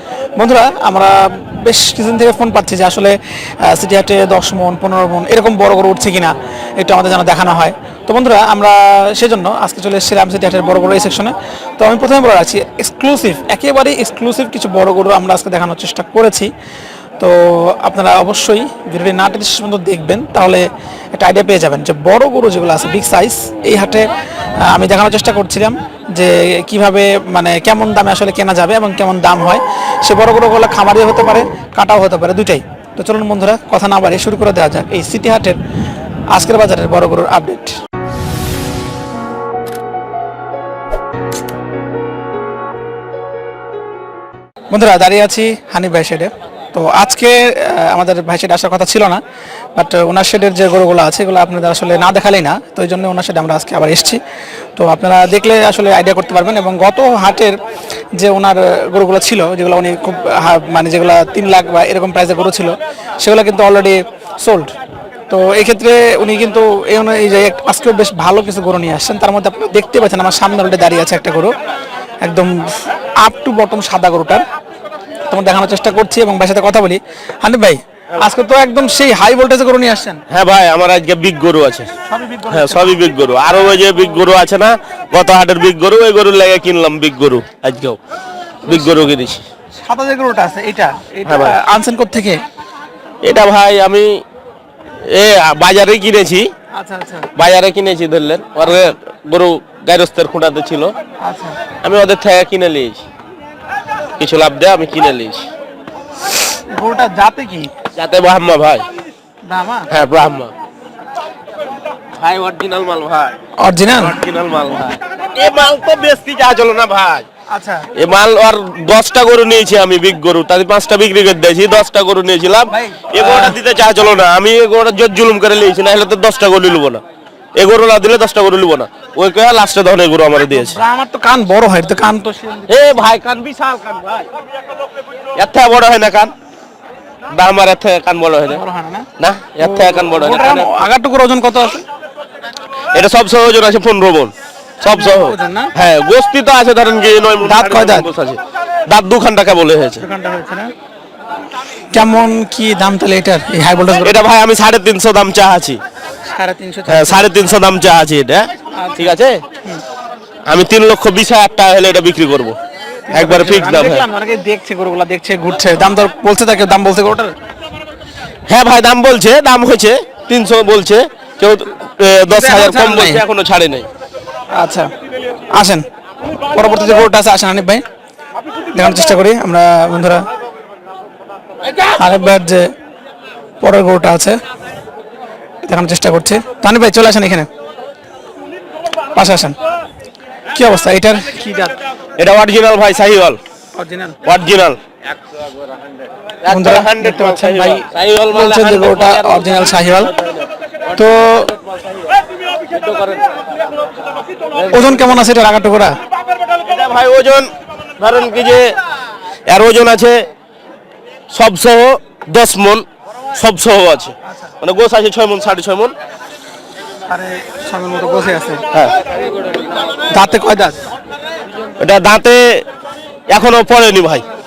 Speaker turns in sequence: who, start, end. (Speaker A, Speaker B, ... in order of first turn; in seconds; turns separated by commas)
Speaker A: 0.4-16.5, Speaker A: 17.2-24.1, Speaker A: 24.6-35.6, Speaker A: 36.3-37.7, Speaker A: 44.7-49.2, Speaker A: 49.8-54.2, Speaker A: 54.8-57.6, Speaker A: 58.1-64.7, Speaker A: 65.3-71.5, Speaker A: 72.2-74.4, Speaker A: 75.3-80.2, Speaker B: 80.3-81.9, Speaker A: 82.1-83.0, Speaker B: 82.5-88.0, Speaker B: 88.7-89.4, Speaker A: 88.7-89.0, Speaker A: 89.8-92.4, Speaker B: 91.3-91.5, Speaker B: 93.2-94.1, Speaker B: 95.1-96.5, Speaker A: 96.7-97.3, Speaker B: 97.4-100.9, Speaker A: 101.2-101.6, Speaker B: 101.8-103.0, Speaker B: 104.2-105.5, Speaker A: 106.7-107.7, Speaker B: 108.0-108.8, Speaker A: 109.5-109.9, Speaker B: 109.9-110.5, Speaker B: 112.2-113.4, Speaker A: 113.6-114.2, Speaker B: 114.0-117.2, Speaker A: 117.5-117.9, Speaker B: 118.0-127.0, Speaker A: 122.7-123.6, Speaker B: 127.6-130.8, Speaker A: 130.5-133.0, Speaker B: 132.7-134.3, Speaker B: 135.4-136.3, Speaker B: 137.3-138.6, Speaker A: 138.5-139.1, Speaker B: 139.2-140.8, Speaker A: 139.6-141.8, Speaker B: 142.9-150.0, Speaker A: 144.8-145.7, Speaker A: 147.4-148.1, Speaker A: 150.0-150.7, Speaker A: 151.9-154.2, Speaker B: 154.0-155.8, Speaker A: 156.3-157.3, Speaker B: 156.9-159.4, Speaker A: 158.8-159.8, Speaker B: 160.5-162.6, Speaker A: 163.1-167.3, Speaker B: 163.1-164.0, Speaker B: 168.5-173.9, Speaker A: 172.3-173.2, Speaker A: 174.6-174.9, Speaker A: 175.5-175.8, Speaker A: 176.5-177.8, Speaker A: 178.7-180.2, Speaker A: 182.0-182.7, Speaker A: 183.6-184.4, Speaker A: 185.6-187.5, Speaker A: 189.2-189.6, Speaker A: 190.5-191.8, Speaker B: 192.2-193.4, Speaker A: 193.8-194.2, Speaker B: 194.2-194.8, Speaker B: 196.4-200.4, Speaker A: 196.5-200.1, Speaker A: 200.9-201.5, Speaker B: 202.7-203.3, Speaker A: 204.7-206.0, Speaker B: 206.6-207.5, Speaker B: 208.0-208.7, Speaker B: 209.5-210.2, Speaker B: 211.3-215.9, Speaker A: 214.3-214.5, Speaker A: 217.1-218.6, Speaker A: 220.1-220.8, Speaker B: 221.8-222.6, Speaker B: 223.3-224.2